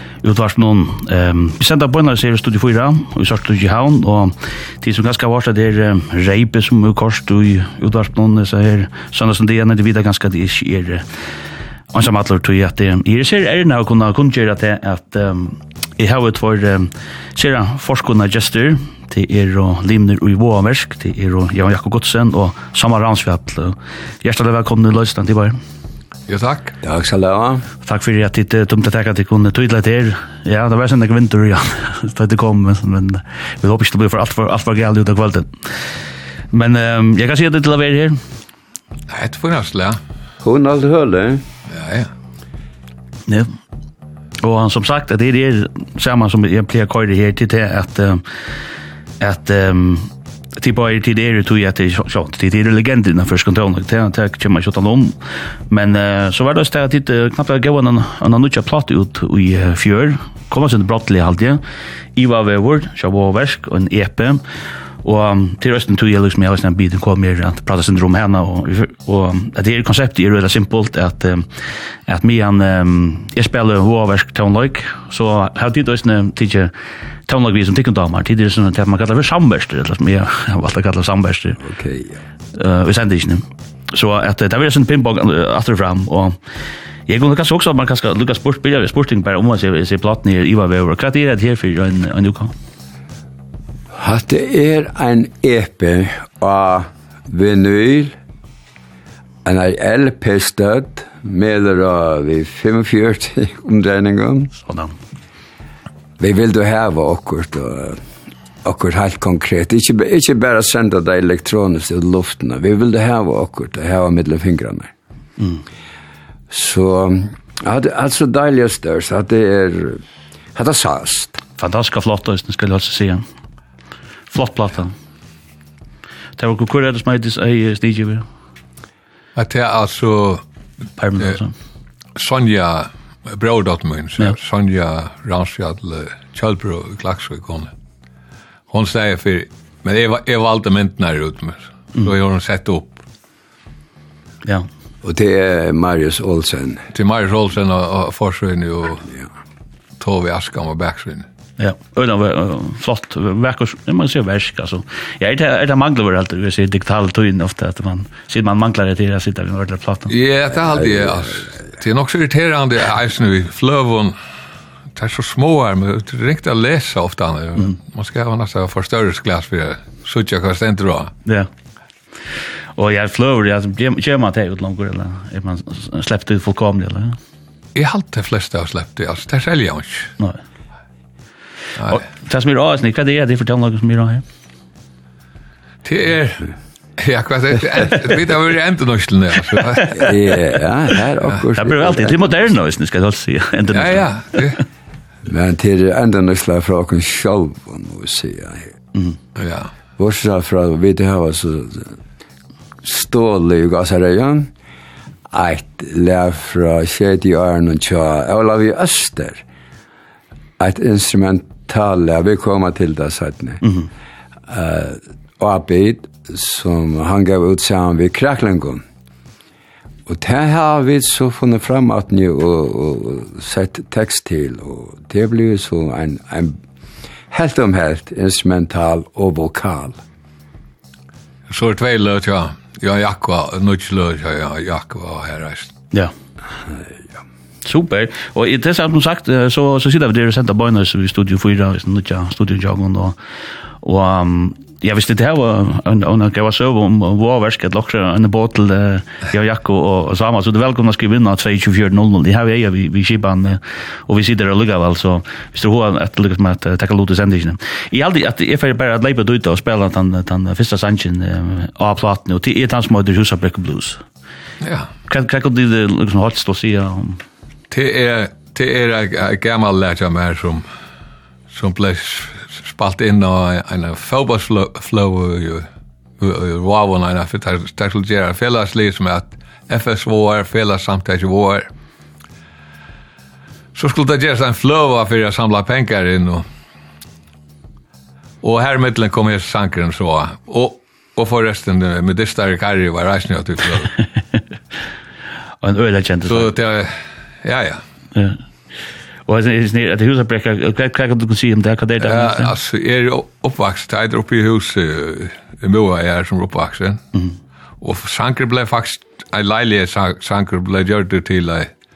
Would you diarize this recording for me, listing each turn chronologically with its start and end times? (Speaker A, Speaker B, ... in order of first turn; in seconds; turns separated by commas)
Speaker A: 0.2-11.1, Speaker A: 11.9-25.6, Speaker B: 26.3-26.8, Speaker C: 26.8-27.6, Speaker A: 27.8-36.0, Speaker A: 36.5-38.2, Speaker B: 39.1-40.0, Speaker C: 40.4-41.5, Speaker B: 41.7-42.1, Speaker A: 43.3-43.5, Speaker A: 44.4-48.7, Speaker A: 49.2-55.2, Speaker A: 55.7-61.6, Speaker A: 62.2-64.4, Speaker A: 65.0-76.7, Speaker A: 77.3-81.6, Speaker C: 81.6-82.2, Speaker A: 82.5-86.4, Speaker A: 87.1-92.5, Speaker C: 93.9-98.2, Speaker C: 99.5-104.5, Speaker A: 104.6-105.0, Speaker C: 106.2-108.0, Speaker C: 108.6-114.9, Speaker C: 116.5-120.0, Speaker C: 120.5-121.4, Speaker A: 121.6-123.3, Speaker A: 124.3-125.0, Speaker A: 126.4-128.3, Speaker B: 129.4-130.4, Speaker A: 131.0-131.5, Speaker B: 132.2-137.7, Speaker B: 138.7-143.0, Speaker C: 145.0-146.8, Speaker B: 146.9-149.1, Speaker B: 150.0-151.3, Speaker A: 151.6-160.1, Speaker B: 160.1-164.2, Speaker C: 160.7-161.5, Speaker B: 164.9-171.1, Speaker A: 172.8-177.2, Speaker B: 177.8-180.1, Speaker A: 181.9-184.2, Speaker B: 185.8-186.5, Speaker B: 187.0-190.0, Speaker C: 189.9-192.3, Speaker A: 191.6-194.4, Speaker B: 193.7-194.6, Speaker C: 195.2-198.7, Speaker B: 199.4-199.7, Speaker C: 200.0-202.0, Speaker C: 202.8-204.5, Speaker C: 205.3-209.4, Speaker C: 210.6-213.6, Speaker C: 214.5-218.8, Speaker C: 220.1-226.6, Speaker C: 227.3-230.0, Speaker B: 231.5-235.8, Speaker A: 237.7-243.2, Speaker A: 243.8-264.0, Speaker B: 264.6-264.9, Speaker A: 265.1-267.2, Speaker B: 267.7-270.7, Speaker B: 271.5-275.7, Speaker B: 276.2-281.7, Speaker B: 283.8-286.4, Speaker B: 288.4-293.9, Speaker A: 295.6-296.5, Speaker B: 296.3-297.8, Speaker A: 299.3-302.5, Speaker B: 302.0-307.0, Speaker B: 307.8-311.7